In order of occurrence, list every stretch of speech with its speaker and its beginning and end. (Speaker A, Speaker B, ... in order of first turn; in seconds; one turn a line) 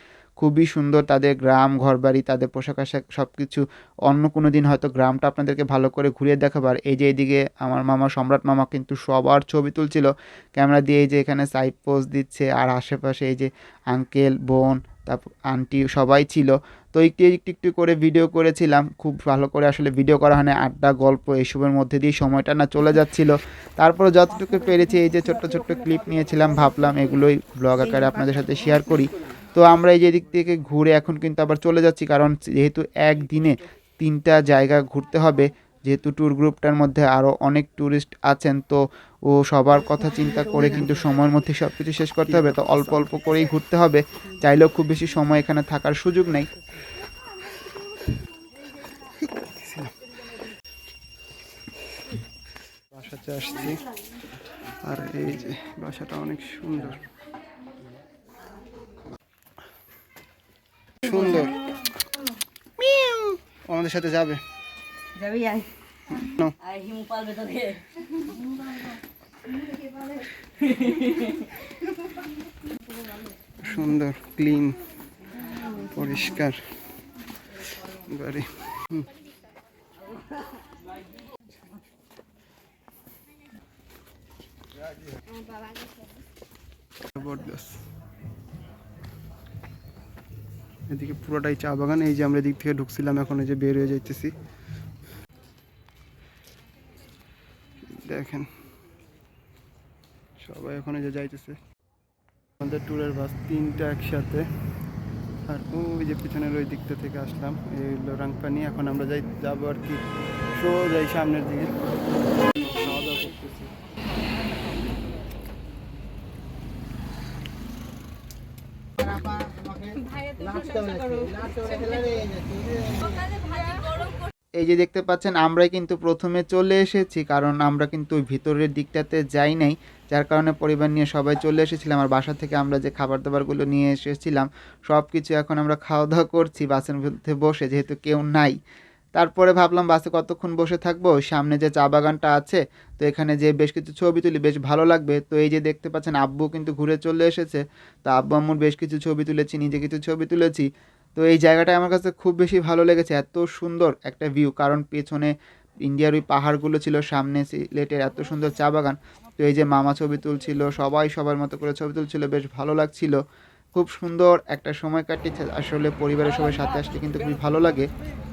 Speaker A: 0.4-46.5
Speaker B: 42.2-43.1
Speaker B: 49.2-49.9
Speaker B: 52.9-53.8
Speaker B: 54.6-57.0
Speaker B: 61.0-61.6
Speaker B: 62.8-64.4
Speaker C: 65.3-65.6
Speaker B: 66.1-66.6
Speaker C: 66.7-67.8
Speaker B: 73.6-74.8
Speaker B: 75.6-76.8
Speaker B: 77.8-79.1
Speaker B: 87.1-87.8
Speaker B: 90.9-94.3
Speaker B: 97.9-98.5
Speaker B: 100.4-101.6
Speaker B: 102.6-104.5
Speaker B: 105.5-110.0
Speaker B: 110.5-111.8
Speaker B: 112.5-113.7
Speaker C: 119.9-122.3
Speaker A: 124.6-138.6
Speaker A: 139.2-163.2
Speaker A: 163.7-167.9